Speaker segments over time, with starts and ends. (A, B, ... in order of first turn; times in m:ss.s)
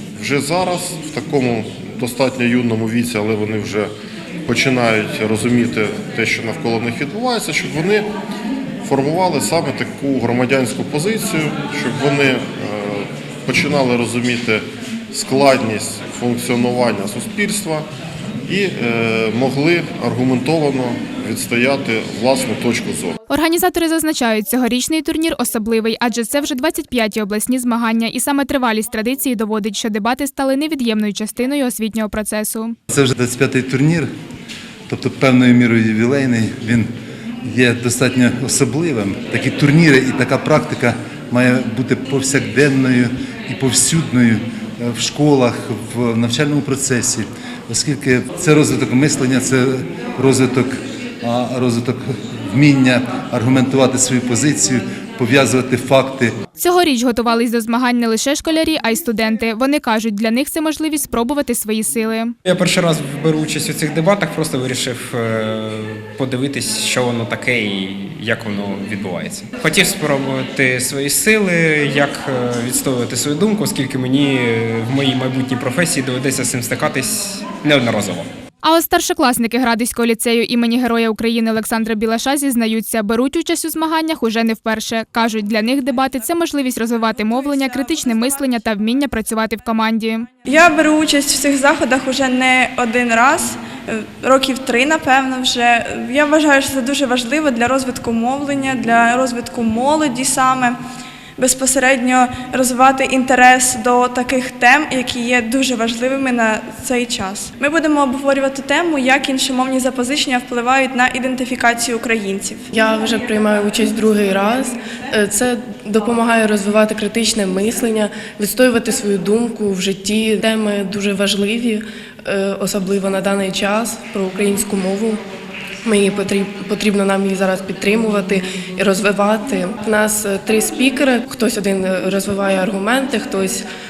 0:00.2-0:03.9 A
0:04.5-0:08.1 A
0:08.8-0:17.9 A
0:18.5-0:23.2 A
0:23.3-0:32.7 B
0:32.9-0:34.1 C
0:34.9-0:36.9 C
0:37.4-0:56.3 C
0:56.6-1:02.3 B
1:02.4-1:18.3 D
1:18.6-1:30.3 B
1:27.0-1:28.6 E
1:30.4-1:40.8 E
1:41.4-1:52.6 E
1:52.7-2:05.2 F
2:05.8-2:13.6 F